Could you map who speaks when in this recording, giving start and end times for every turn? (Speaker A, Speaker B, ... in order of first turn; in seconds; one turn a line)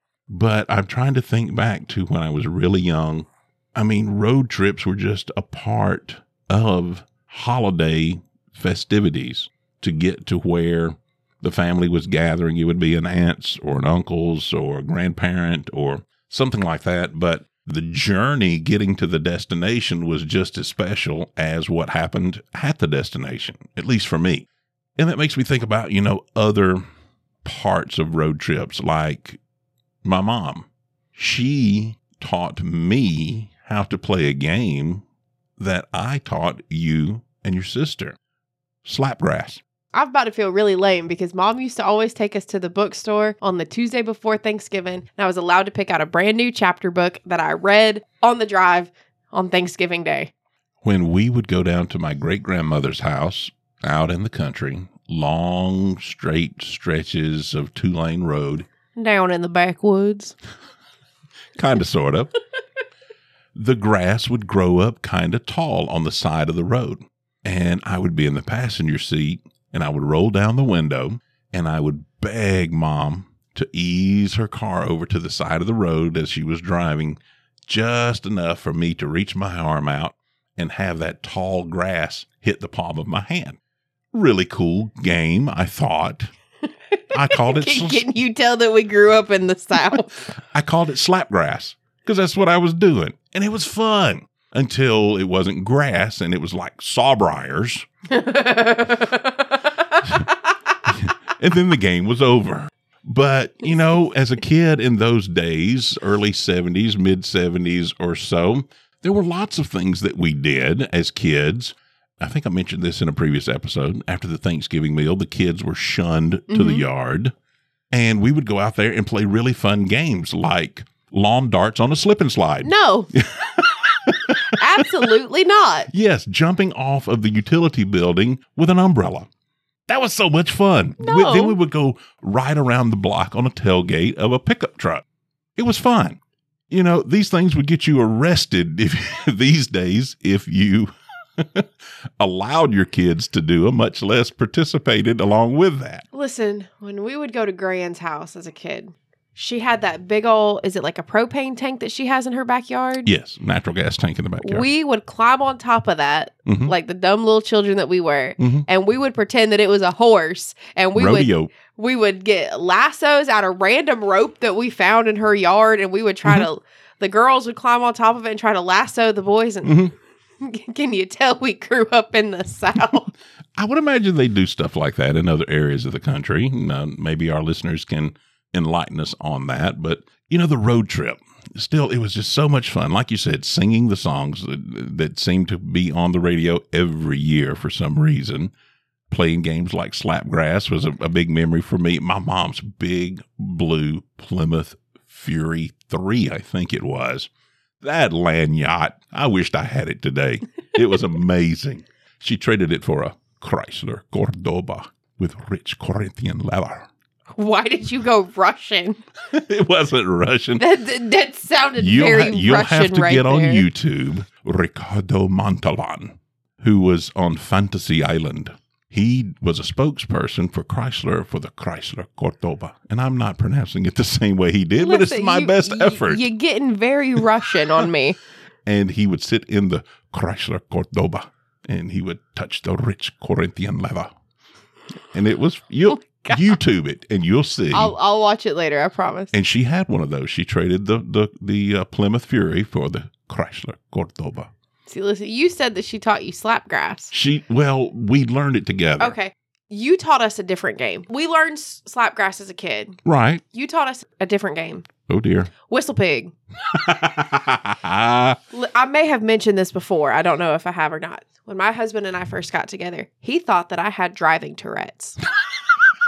Speaker A: 0.3-24.5
Speaker A: 25.0-26.8
Speaker A: 27.4-29.4
Speaker A: 30.0-35.0
Speaker A: 35.6-38.2
Speaker A: 38.9-39.6
Speaker B: 39.9-50.3
Speaker A: 50.8-58.7
Speaker B: 59.0-60.4
Speaker A: 61.6-62.3
Speaker A: 63.5-83.6
Speaker A: 84.1-86.3
Speaker B: 86.9-90.2
Speaker A: 87.1-88.1
Speaker A: 90.5-97.9
Speaker B: 98.1-100.3
Speaker A: 100.9-117.3
Speaker B: 116.5-116.9
Speaker A: 117.9-125.1
Speaker B: 122.6-123.1
Speaker B: 124.5-125.9
Speaker A: 125.9-129.3
Speaker A: 129.9-135.0
Speaker B: 131.0-131.6
Speaker A: 135.6-136.2
Speaker A: 136.7-146.0
Speaker B: 146.1-153.1
Speaker A: 153.1-154.7
Speaker B: 154.4-169.9
Speaker A: 156.5-156.7
Speaker A: 158.4-158.7
Speaker A: 161.0-161.5
Speaker A: 169.7-169.9
Speaker B: 170.4-173.1
Speaker A: 173.6-188.5
Speaker A: 189.1-197.3
Speaker A: 197.8-206.9
Speaker B: 207.4-209.0
Speaker A: 209.3-210.6
Speaker B: 210.6-213.7
Speaker A: 211.8-226.2
Speaker B: 224.8-228.2
Speaker A: 228.7-234.1
Speaker A: 235.1-237.9
Speaker B: 235.9-236.5
Speaker B: 237.7-239.3
Speaker A: 239.3-244.5
Speaker B: 244.9-247.1
Speaker A: 247.1-249.2
Speaker B: 249.0-253.0
Speaker A: 253.1-253.4
Speaker B: 253.5-254.9
Speaker A: 255.1-255.5
Speaker B: 255.7-256.3
Speaker A: 256.7-258.4
Speaker B: 258.5-265.2